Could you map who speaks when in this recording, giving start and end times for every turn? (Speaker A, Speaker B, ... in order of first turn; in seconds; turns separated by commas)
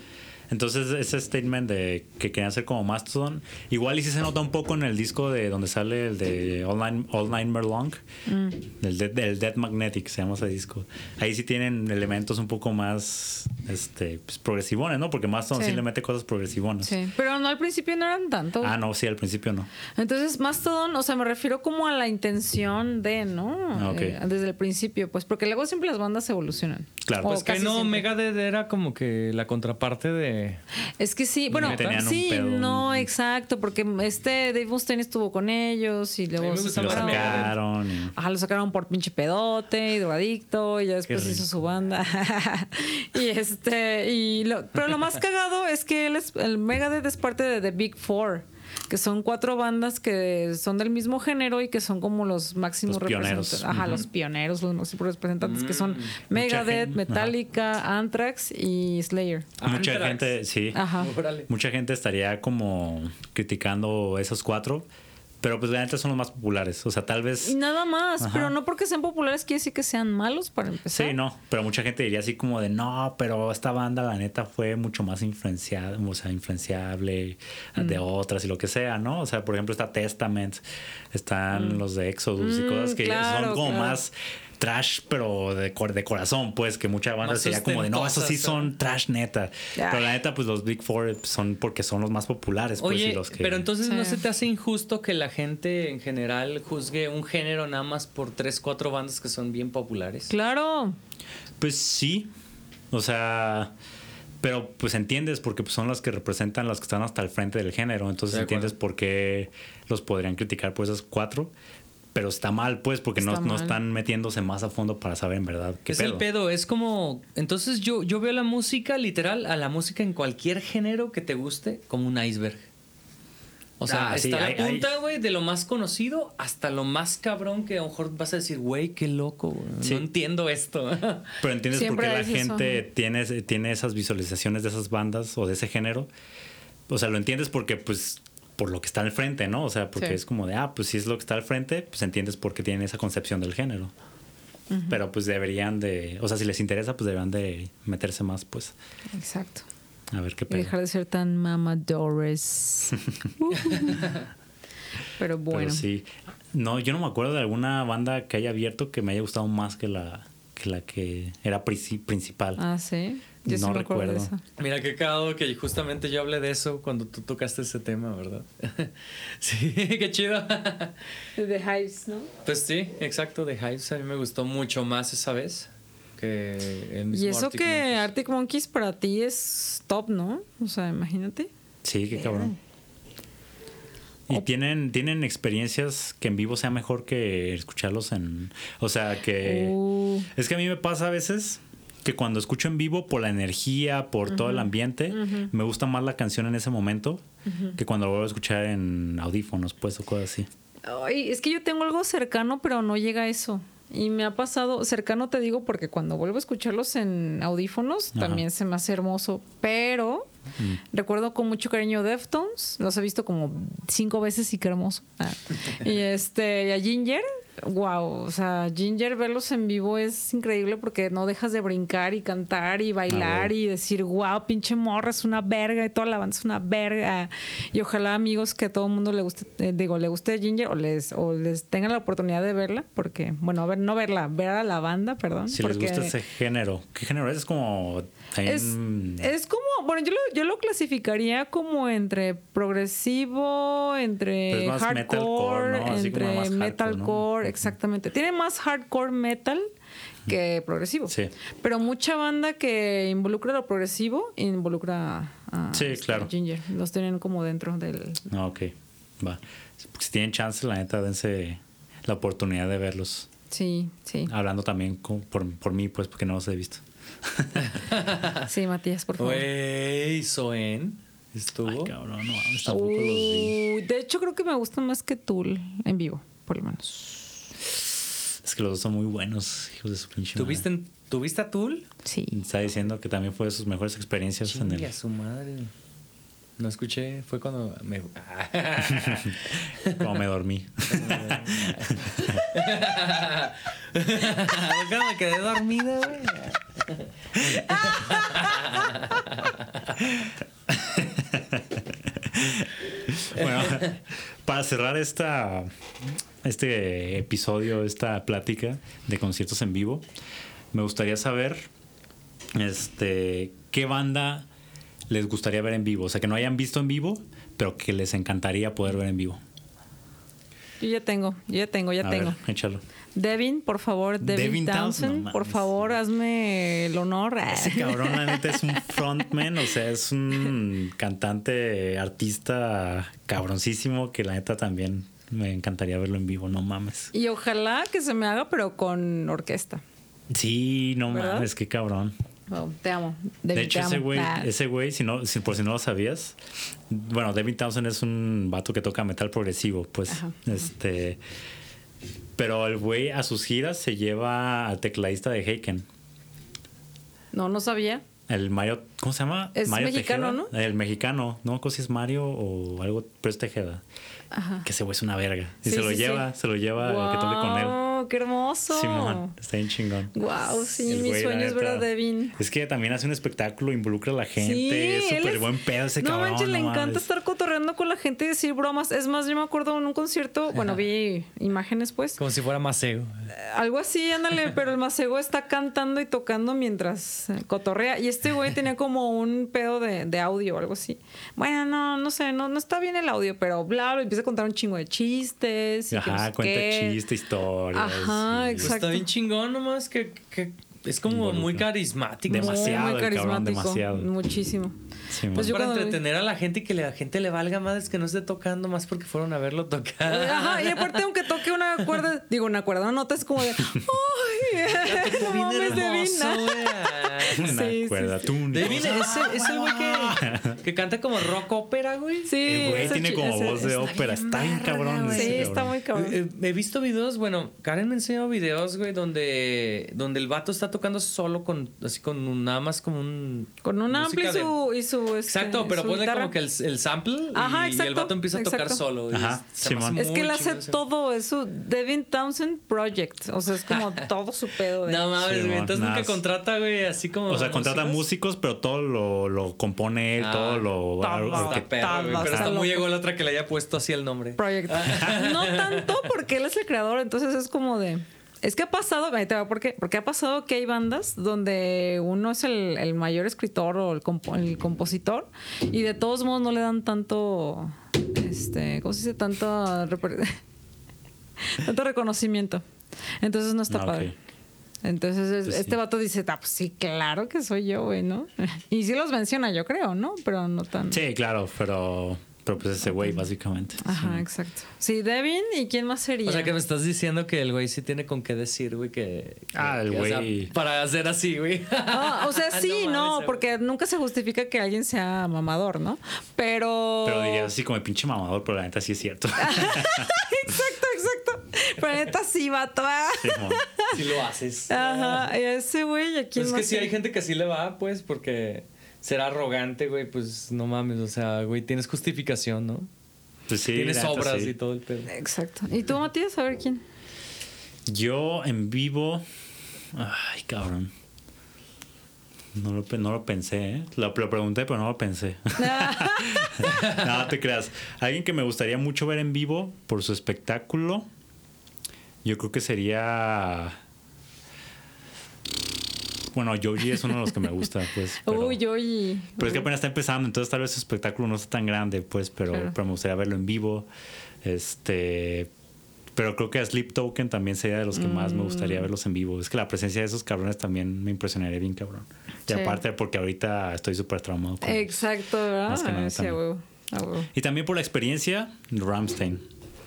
Speaker A: 0.5-8.0, Speaker B: 8.2-8.6, Speaker A: 8.7-16.9, Speaker B: 15.5-15.8, Speaker B: 16.8-18.7, Speaker A: 18.6-19.7, Speaker B: 19.9-28.1, Speaker A: 23.7-24.2, Speaker A: 27.0-27.5, Speaker C: 27.2-30.6, Speaker B: 31.0-37.5, Speaker A: 31.5-33.1, Speaker C: 31.5-32.0, Speaker C: 36.4-37.5, Speaker A: 36.7-38.1, Speaker B: 38.1-59.5, Speaker C: 41.1-41.4, Speaker A: 52.9-54.0, Speaker C: 55.4-56.2, Speaker A: 56.3-57.3, Speaker C: 59.6-60.4, Speaker A: 59.6-60.9, Speaker B: 60.7-61.1, Speaker C: 60.9-61.5, Speaker A: 61.5-64.9, Speaker A: 65.4-67.5, Speaker B: 67.4-71.2, Speaker A: 68.2-68.5, Speaker A: 70.9-93.7, Speaker B: 81.5-81.8, Speaker B: 82.4-84.0, Speaker C: 87.2-88.7, Speaker B: 89.8-90.1, Speaker C: 92.8-100.3, Speaker B: 93.8-94.2, Speaker B: 100.3-101.0, Speaker A: 101.6-102.3, Speaker A: 102.9-103.7, Speaker A: 104.4-111.5, Speaker C: 108.3-108.7, Speaker A: 112.1-116.2, Speaker B: 113.2-113.8, Speaker C: 115.9-122.7, Speaker C: 123.8-131.4, Speaker A: 123.9-124.9, Speaker A: 131.4-136.1, Speaker B: 131.7-132.8, Speaker A: 136.9-143.9, Speaker B: 144.7-145.0, Speaker A: 144.9-148.7, Speaker B: 149.1-149.7, Speaker A: 150.1-150.7, Speaker B: 150.5-154.1, Speaker B: 155.2-155.8, Speaker A: 155.5-162.6, Speaker B: 162.6-164.4, Speaker A: 163.4-164.3, Speaker C: 164.6-170.9, Speaker B: 171.3-172.3, Speaker C: 172.4-178.1, Speaker B: 177.1-181.5, Speaker A: 181.8-182.5, Speaker B: 182.1-182.6, Speaker A: 184.3-189.8, Speaker B: 189.4-190.3, Speaker A: 190.3-197.2, Speaker B: 194.3-195.5, Speaker B: 197.4-197.8, Speaker A: 197.8-200.5, Speaker B: 200.8-210.3, Speaker A: 208.1-208.4, Speaker B: 210.9-236.2, Speaker A: 223.1-223.5, Speaker A: 235.5-239.3, Speaker B: 238.4-249.7, Speaker A: 244.5-247.7, Speaker B: 250.3-258.2, Speaker A: 255.7-256.3, Speaker A: 258.3-263.3, Speaker B: 263.5-264.3, Speaker A: 264.3-267.7, Speaker C: 267.6-268.5, Speaker B: 268.4-269.5, Speaker C: 269.2-271.9, Speaker A: 271.6-273.6, Speaker B: 272.6-277.4, Speaker A: 278.4-280.6, Speaker C: 280.4-281.9, Speaker B: 282.0-282.4, Speaker A: 282.3-284.9, Speaker C: 284.4-285.7, Speaker C: 286.6-290.1, Speaker A: 288.9-289.4, Speaker A: 289.9-292.5, Speaker C: 290.9-299.9, Speaker B: 297.7-298.7, Speaker A: 300.1-305.7, Speaker C: 303.4-303.9, Speaker A: 306.4-310.0, Speaker A: 310.7-311.7, Speaker A: 312.5-314.5, Speaker A: 315.1-319.4, Speaker B: 320.8-322.4, Speaker A: 322.0-322.8, Speaker B: 323.1-328.8, Speaker A: 324.2-325.9, Speaker A: 327.5-337.1, Speaker B: 337.1-339.8, Speaker A: 340.3-342.1, Speaker B: 341.1-341.5, Speaker B: 342.5-344.5, Speaker A: 343.5-346.4, Speaker A: 346.9-351.2, Speaker B: 350.1-350.4, Speaker A: 352.4-355.8, Speaker B: 357.3-358.0, Speaker A: 358.3-363.8, Speaker B: 359.5-360.5, Speaker B: 364.3-364.7, Speaker A: 364.6-367.8, Speaker B: 365.6-369.3, Speaker A: 368.7-370.1, Speaker B: 370.1-372.4, Speaker A: 370.8-377.1, Speaker B: 374.4-382.2, Speaker C: 382.2-383.1, Speaker B: 383.3-397.0, Speaker A: 395.9-398.7, Speaker B: 397.7-399.1, Speaker C: 398.6-402.9, Speaker A: 401.1-401.7, Speaker A: 402.2-404.1, Speaker B: 402.3-404.8, Speaker A: 405.1-405.5, Speaker B: 405.3-406.0, Speaker C: 405.3-411.1, Speaker B: 410.0-419.1, Speaker A: 413.6-413.9, Speaker C: 414.7-417.5, Speaker A: 417.3-420.6, Speaker C: 418.5-423.1, Speaker B: 422.2-423.9, Speaker A: 422.4-425.7, Speaker C: 423.7-434.6, Speaker B: 425.0-426.2, Speaker B: 433.6-436.3, Speaker C: 435.3-440.8, Speaker B: 437.3-438.8, Speaker A: 439.1-440.0, Speaker B: 439.9-445.1, Speaker C: 443.7-444.0, Speaker C: 444.8-448.0, Speaker A: 445.2-446.2, Speaker A: 447.3-452.5, Speaker C: 450.2-450.7, Speaker B: 451.0-452.9, Speaker C: 451.2-456.0, Speaker B: 454.4-470.4, Speaker B: 471.4-472.6, Speaker B: 473.2-474.1, Speaker A: 473.7-474.1, Speaker B: 474.8-481.0, Speaker A: 475.4-475.8, Speaker A: 480.9-484.2, Speaker B: 482.8-483.2, Speaker B: 483.8-486.6, Speaker C: 486.2-493.4, Speaker A: 489.5-490.5, Speaker B: 491.9-497.5, Speaker A: 497.0-500.3, Speaker B: 499.4-504.0, Speaker A: 503.2-503.6, Speaker C: 503.9-505.3, Speaker B: 504.7-506.9, Speaker C: 506.4-512.9, Speaker A: 513.5-514.5, Speaker C: 513.6-515.1, Speaker B: 515.1-516.8, Speaker A: 517.9-519.2, Speaker A: 519.9-520.9, Speaker A: 522.5-531.1, Speaker B: 525.6-526.6, Speaker C: 526.7-527.0, Speaker A: 532.2-533.8, Speaker A: 536.3-538.6, Speaker B: 538.2-539.7, Speaker A: 539.4-543.9, Speaker A: 544.4-545.5, Speaker A: 546.1-555.1, Speaker B: 547.9-548.9, Speaker B: 552.5-552.8, Speaker B: 554.6-557.3, Speaker A: 555.6-556.4, Speaker A: 557.3-559.4